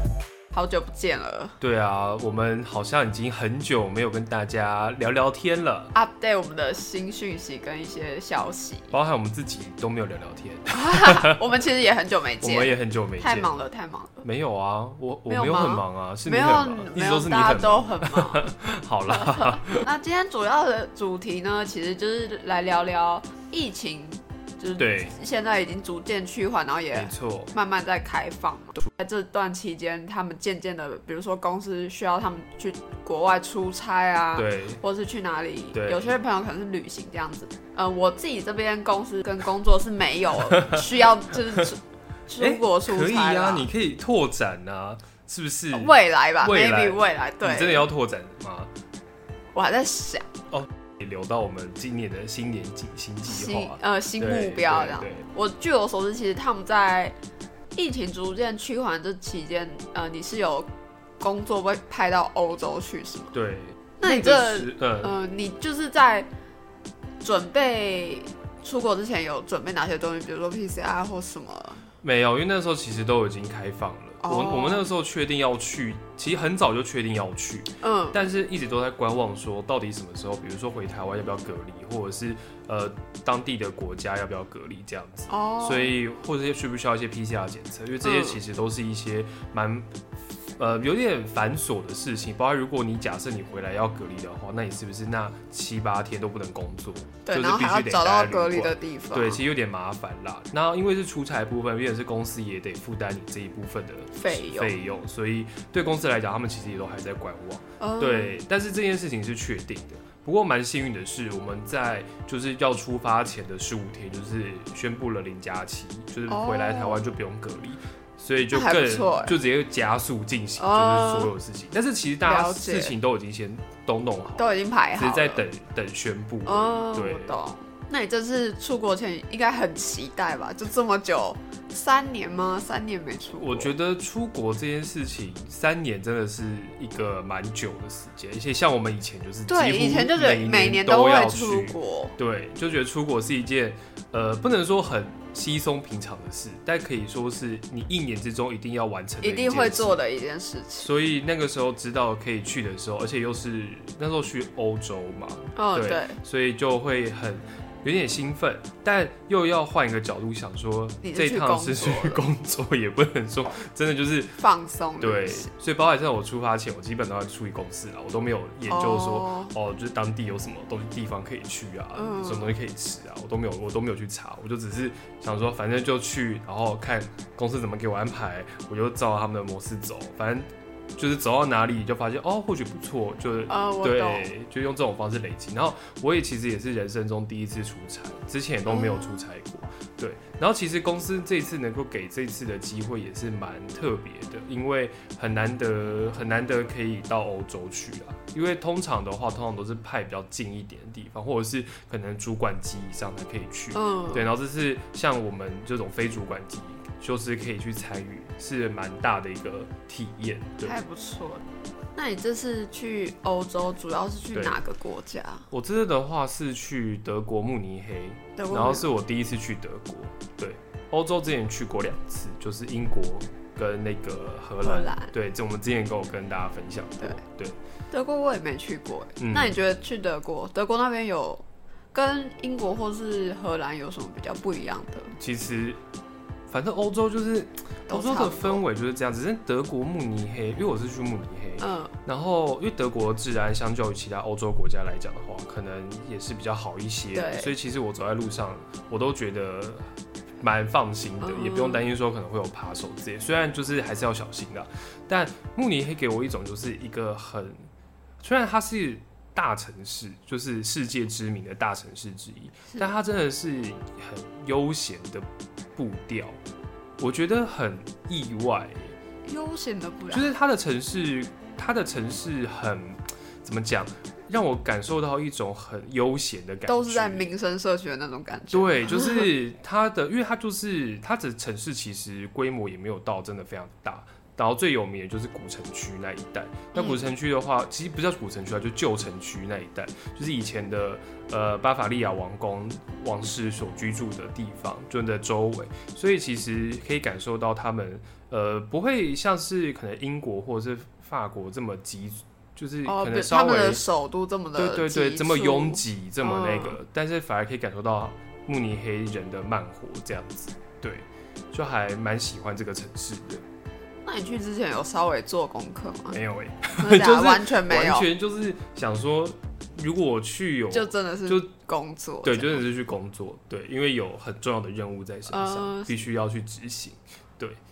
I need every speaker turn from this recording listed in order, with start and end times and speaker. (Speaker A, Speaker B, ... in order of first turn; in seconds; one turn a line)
Speaker A: 0.5-1.6
Speaker B: 1.6-5.9
Speaker A: 5.9-8.9
Speaker B: 8.9-11.4
Speaker A: 10.7-14.2
Speaker B: 12.4-13.5
Speaker B: 14.2-19.9
Speaker A: 15.3-18.4
Speaker A: 19.1-43.7
Speaker B: 24.8-25.1
Speaker B: 26.9-27.5
Speaker B: 34.4-34.8
Speaker B: 35.7-36.1
Speaker B: 42.4-48.7
Speaker A: 45.7-47.9
Speaker A: 49.5-50.3
Speaker B: 50.5-55.2
Speaker A: 53.2-57.1
Speaker A: 57.7-60.7
Speaker A: 61.2-63.4
Speaker B: 63.3-65.2
Speaker A: 64.0-66.3
Speaker A: 67.2-71.8
Speaker B: 72.0-89.9
Speaker A: 74.2-74.8
Speaker A: 77.8-78.2
Speaker A: 85.3-86.0
Speaker A: 88.0-88.4
Speaker B: 90.6-127.4
Speaker A: 97.2-99.4
Speaker A: 104.2-104.7
Speaker A: 107.8-108.3
Speaker A: 116.3-117.0
Speaker A: 118.5-119.3
Speaker A: 120.6-121.3
Speaker A: 122.2-122.9
Speaker A: 124.4-125.4
Speaker A: 126.5-133.7
Speaker B: 133.3-150.0
Speaker A: 139.5-142.2
Speaker A: 149.2-150.9
Speaker B: 150.8-164.3
Speaker A: 155.6-156.2
Speaker A: 161.0-162.3
Speaker A: 164.4-165.5
Speaker B: 165.0-210.8
Speaker A: 168.7-169.5
Speaker A: 171.9-172.5
Speaker A: 183.5-184.3
Speaker A: 188.7-189.2
Speaker A: 203.7-204.3
Speaker A: 210.6-215.4
Speaker B: 214.3-214.6
Speaker B: 215.5-227.6
Speaker A: 218.3-218.9
Speaker A: 224.6-225.1
Speaker A: 227.9-235.2
Speaker B: 229.2-229.6
Speaker B: 235.2-235.8
Speaker B: 236.5-257.7
Speaker A: 237.9-238.6
Speaker A: 241.6-241.9
Speaker A: 247.1-247.5
Speaker A: 251.2-251.8
Speaker B: 258.2-266.4
Speaker B: 267.0-268.9
Speaker A: 269.2-270.3
Speaker B: 270.1-277.3
Speaker A: 276.6-279.3
Speaker B: 278.5-303.8
Speaker A: 286.7-287.1
Speaker A: 302.9-306.8
Speaker B: 304.6-313.4
Speaker A: 314.0-316.2
Speaker B: 316.1-321.5
Speaker A: 316.8-318.1
Speaker A: 320.7-322.6
Speaker B: 322.2-327.6
Speaker A: 325.3-325.9